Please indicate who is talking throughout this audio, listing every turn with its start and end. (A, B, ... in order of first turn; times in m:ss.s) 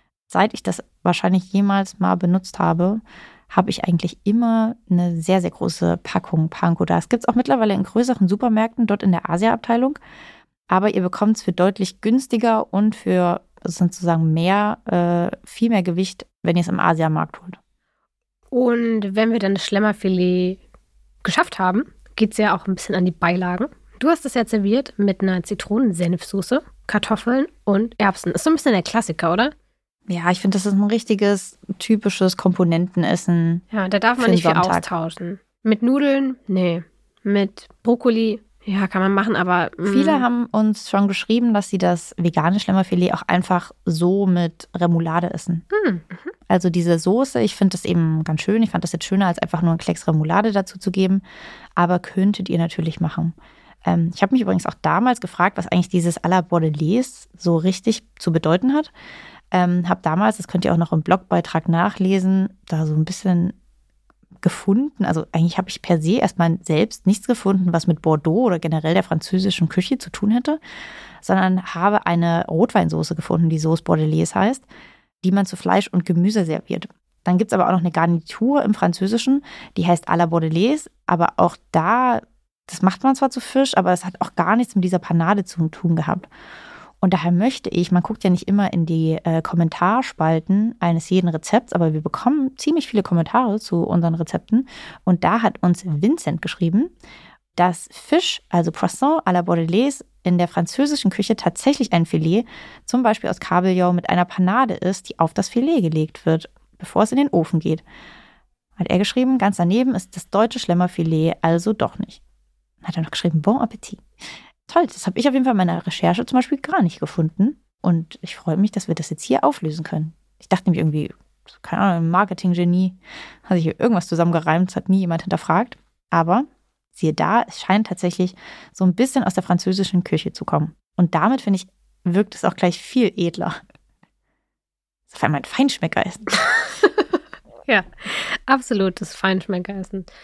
0:00.3-0:10.0 A
0:10.7-0:17.6 A
0:18.5-0:20.6 B
0:21.2-0:29.5 B
0:30.1-0:33.6 A
0:33.7-0:40.2 B
0:34.2-0:34.9 A
0:39.9-0:45.6 A
0:45.7-0:46.3 B
0:46.5-0:51.2 A
0:51.8-0:53.3 A
0:53.8-0:58.9 A
0:59.5-1:03.5 A
1:04.4-1:10.6 A
1:11.2-1:14.6 A
1:15.2-1:26.3 A
1:27.0-1:36.9 A
1:37.6-1:47.8 A
1:48.8-1:52.2 A
1:52.8-1:54.0 A
1:54.7-2:13.6 A
2:15.1-2:16.4 A
2:16.5-2:20.1 B